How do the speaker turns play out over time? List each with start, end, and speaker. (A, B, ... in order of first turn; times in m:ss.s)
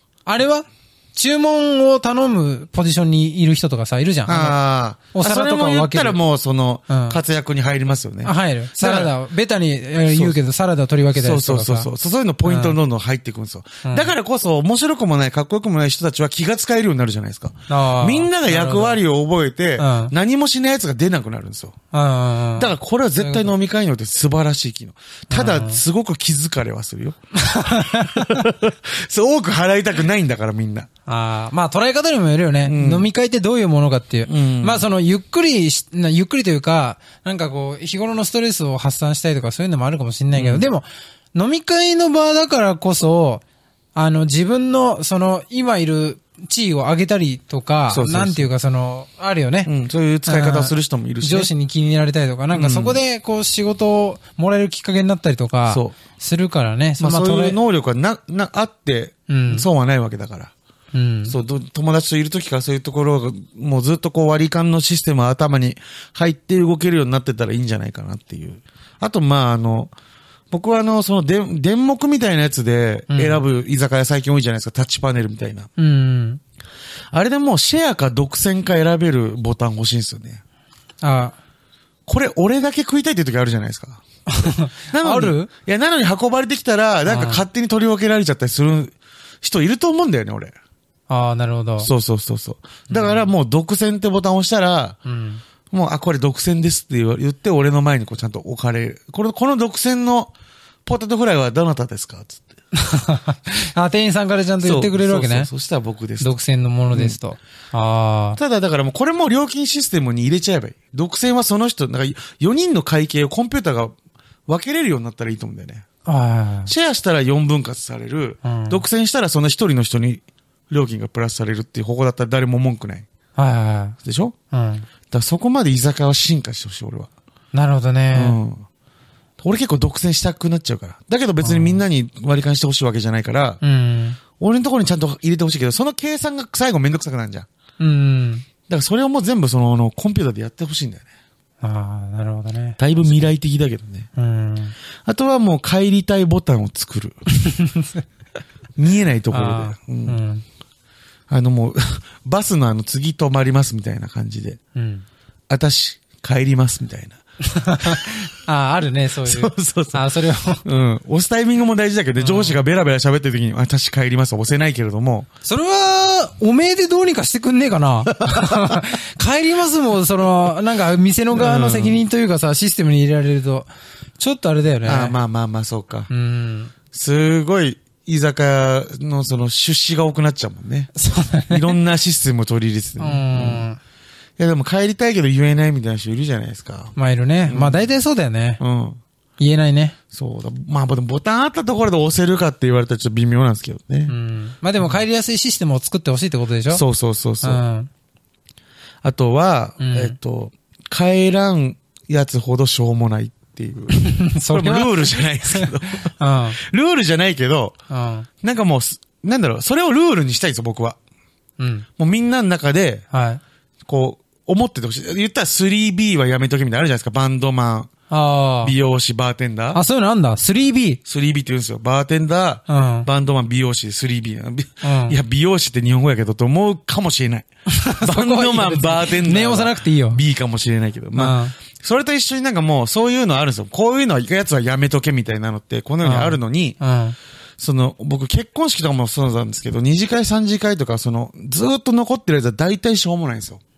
0:00.3-0:04.6 A
0:04.3-0:09.1 B
0:05.1-0:06.2 A
0:06.9-0:07.2 A
0:08.2-0:11.9 A
0:10.1-0:10.4 B
0:11.2-0:21.8 B
0:12.4-0:12.8 A
0:13.8-0:14.1 A
0:17.7-0:19.0 A
0:19.8-0:20.1 A
0:21.9-0:23.5 A
0:22.6-0:30.9 B
0:25.3-0:25.8 A
0:27.4-0:28.5 A
0:31.1-0:43.4 A
0:32.6-0:33.1 B
0:34.3-0:34.8 B
0:40.4-0:40.7 B
0:44.0-0:49.7 A
0:47.9-0:48.5 B
0:49.7-0:51.5 B
0:50.3-0:57.6 A
0:52.5-0:53.0 B
0:55.7-0:56.0 B
0:57.0-1:00.5 B
0:59.3-0:59.7 A
1:00.9-1:01.4 A
1:01.3-1:09.9 B
1:10.5-1:15.7 B
1:13.1-1:13.4 A
1:15.8-1:16.4 A
1:17.1-1:20.4 B
1:21.0-1:21.4 A
1:22.1-1:24.0 B
1:24.3-1:25.5 A
1:24.9-1:30.5 B
1:27.1-1:27.4 A
1:31.1-1:31.9 A
1:31.8-1:35.0 B
1:32.9-1:33.3 A
1:35.1-1:35.4 A
1:35.7-1:40.3 B
1:40.9-1:42.5 B
1:42.7-1:45.5 A
1:44.6-1:46.4 B
1:46.2-1:48.4 A
1:46.9-1:47.2 B
1:48.4-1:53.9 B
1:54.5-1:55.9 B
1:56.0-1:56.7 A
1:56.7-2:03.1 B
1:58.4-1:58.8 A
2:03.4-2:04.0 A
2:04.0-2:04.4 B
2:04.5-2:04.9 A
2:05.1-2:07.1 B
2:07.5-2:08.4 A
2:08.1-2:08.7 B
2:09.4-2:13.6 B
2:11.4-2:11.8 A
2:13.6-2:14.2 A
2:14.4-2:17.5 B
2:17.8-2:18.5 A
2:18.7-2:21.0 B
2:21.6-2:23.3 A
2:22.8-2:24.1 B
2:24.2-2:24.8 A
2:25.0-2:27.2 B
2:27.4-2:27.9 A
2:28.8-2:30.2 B
2:29.3-2:30.4 A
2:31.3-2:34.6 B
2:34.8-2:35.0 A
2:35.5-2:37.2 B
2:37.4-2:40.6 A
2:39.2-2:40.0 B
2:40.6-2:45.3 B
2:42.2-2:42.6 A
2:45.4-2:55.2 A
2:48.2-2:48.8 B
2:51.3-2:52.0 B
2:54.8-2:56.1 B
2:56.1-2:56.7 A
2:56.9-3:00.9 B
3:01.0-3:01.8 A
3:01.5-3:03.7 B
3:03.0-3:03.8 A
3:04.4-3:06.9 B
3:07.0-3:08.6 A
3:07.5-3:07.9 B
3:08.6-3:09.0 B
3:09.4-3:10.0 A
3:10.1-3:14.2 B
3:14.1-3:16.8 A
3:16.7-3:17.6 B
3:17.4-3:17.9 A
3:19.0-3:27.8 B
3:19.8-3:20.2 A
3:24.0-3:26.6 A
3:27.9-3:28.3 A
3:28.4-3:31.0 B
3:31.6-3:31.9 A
3:32.0-3:33.0 B
3:33.1-3:33.4 A
3:33.9-3:37.9 B
3:38.1-3:38.7 A
3:38.6-3:39.8 B
3:39.7-3:41.0 A
3:41.1-3:47.5 B
3:42.7-3:43.1 A
3:44.8-3:45.2 A
3:47.7-3:50.2 A
3:48.0-3:56.8 B
3:51.2-3:51.6 A
3:56.0-3:57.2 A
3:57.6-4:03.6 B